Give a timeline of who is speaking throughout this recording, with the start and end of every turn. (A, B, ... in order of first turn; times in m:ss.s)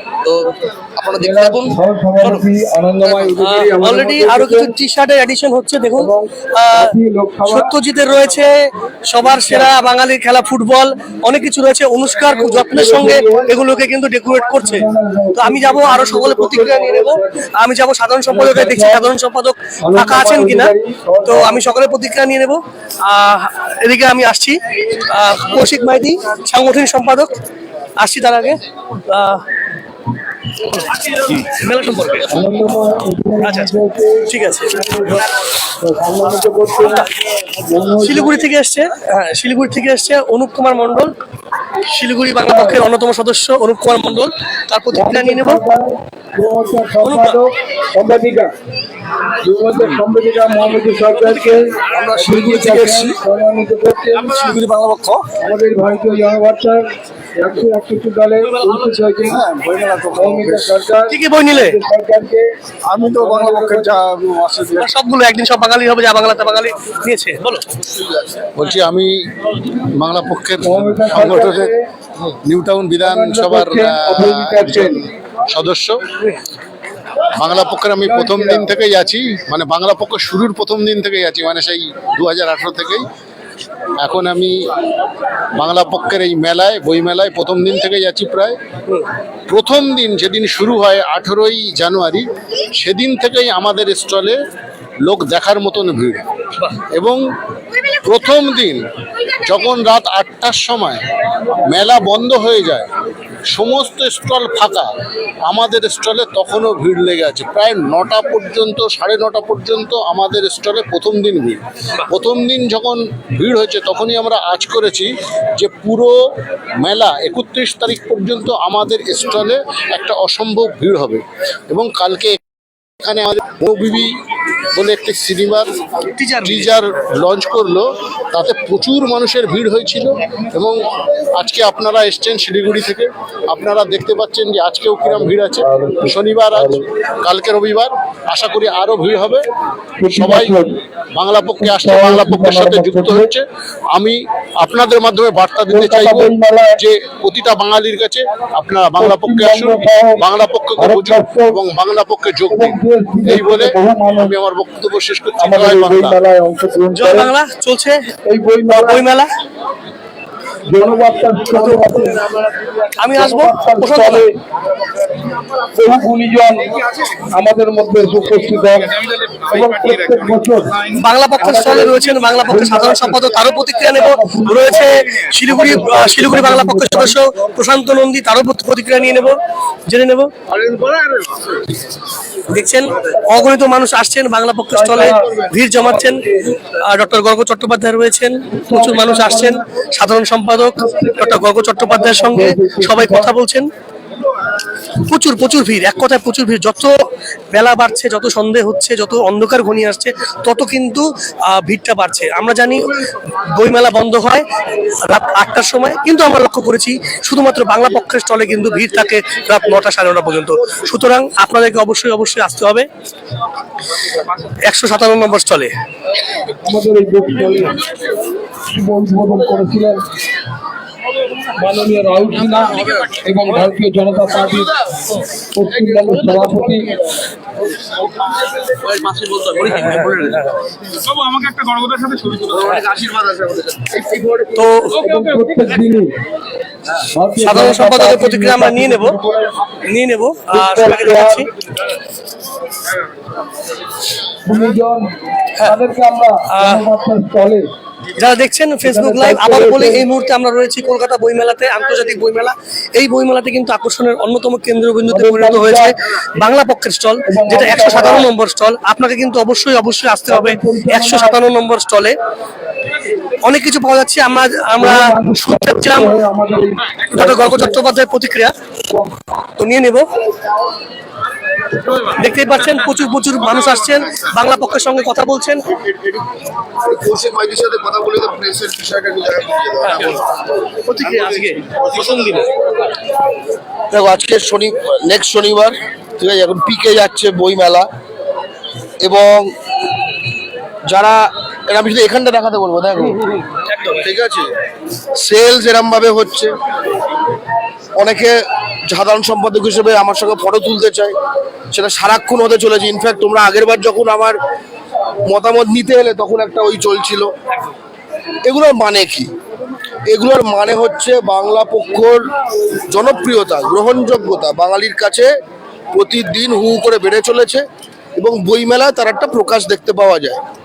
0:00.2-0:02.4 A
0:01.2-0:04.7 B
0:03.0-0:03.3 A
0:03.4-0:06.9 C
0:06.0-0:07.7 B
0:07.5-0:20.7 C
0:09.3-0:09.7 B
0:12.2-0:13.5 B
0:14.6-0:17.4 B
0:18.3-0:19.1 B
0:19.8-0:21.6 B
0:21.2-0:27.3 C
0:28.0-0:29.4 C
0:30.7-0:32.3 C
0:32.3-0:35.2 B
0:33.4-0:33.7 C
0:34.3-0:34.7 C
0:35.8-0:37.1 B
0:37.7-0:38.4 B
0:38.0-0:41.1 C
0:41.9-0:45.6 C
0:42.4-0:42.8 B
0:44.9-0:48.5 B
0:47.0-0:47.4 C
0:49.4-0:54.6 B
0:52.1-0:53.0 D
0:54.8-0:55.1 D
0:55.4-0:56.8 B
0:57.4-0:59.4 B
1:00.1-1:04.1 B
1:01.1-1:01.8 C
1:04.7-1:07.6 C
1:08.5-1:11.7 E
1:10.6-1:11.9 B
1:12.4-1:15.0 E
1:13.0-1:15.1 B
1:15.5-1:16.0 E
1:17.4-1:23.0 E
1:18.0-1:18.8 B
1:24.0-1:24.6 E
1:25.6-1:28.6 E
1:29.5-1:34.4 E
1:35.0-1:36.2 E
1:36.9-1:37.2 E
1:38.0-1:38.8 E
1:39.4-1:41.0 E
1:41.7-1:42.9 E
1:43.5-1:44.9 E
1:45.4-1:56.1 E
1:56.8-2:02.4 E
2:03.0-2:04.1 E
2:04.7-2:05.7 E
2:06.2-2:06.7 C
2:06.4-2:10.8 E
2:11.3-2:19.5 E
2:15.4-2:16.8 B
2:20.0-2:20.8 B
2:20.1-2:20.6 E
2:21.1-2:36.2 E
2:21.6-2:23.3 B
2:25.7-2:26.8 B
2:29.0-2:30.2 B
2:30.8-2:31.6 B
2:32.5-2:34.3 B
2:35.4-2:37.3 B
2:36.9-2:38.0 C
2:38.3-2:39.0 B
2:38.7-2:39.3 C
2:40.7-2:42.2 B
2:41.5-2:42.1 C
2:43.0-2:44.2 C
2:43.1-2:44.4 B
2:45.7-2:46.7 B
2:47.3-2:48.9 B
2:49.5-2:50.8 B
2:51.0-2:59.4 C
2:51.4-2:53.3 B
2:53.8-2:57.2 B
2:59.9-3:00.3 C
3:00.6-3:01.1 D
3:02.5-3:13.7 C
3:04.7-3:06.3 B
3:08.6-3:09.6 B
3:10.8-3:13.3 B
3:15.0-3:24.4 C
3:25.1-3:32.9 C
3:34.6-3:35.7 C
3:36.6-3:37.8 B
3:38.7-3:40.0 B
3:41.6-3:44.7 B
3:45.5-3:46.9 B
3:48.8-3:50.4 A
3:52.3-3:54.4 D
3:54.5-3:55.0 C
3:55.0-3:56.1 B
3:57.1-3:59.5 B
3:57.4-3:59.2 C
3:59.9-4:01.5 C
4:00.5-4:01.5 B
4:04.4-4:05.0 B
4:05.6-4:07.7 B
4:06.5-4:06.8 C
4:08.2-4:22.2 C
4:08.8-4:10.0 B
4:15.0-4:15.9 B
4:17.3-4:18.3 B
4:20.3-4:21.4 B
4:23.4-4:26.1 C
4:24.8-4:27.8 B
4:27.1-4:28.5 C
4:29.6-4:30.1 C
4:31.9-4:35.6 C
4:35.7-4:40.2 D
4:40.9-4:42.4 C
4:43.9-4:47.9 D
4:49.0-4:49.5 D
4:50.8-4:53.2 D
4:53.6-4:54.0 C
4:54.0-4:54.5 D
4:55.2-4:56.5 D
4:58.0-4:58.4 D
4:58.9-5:01.1 D
5:01.7-5:04.4 D
5:05.3-5:07.3 D
5:08.4-5:09.3 D
5:10.1-5:12.3 D
5:12.9-5:15.3 D
5:15.9-5:17.6 D
5:18.2-5:20.4 D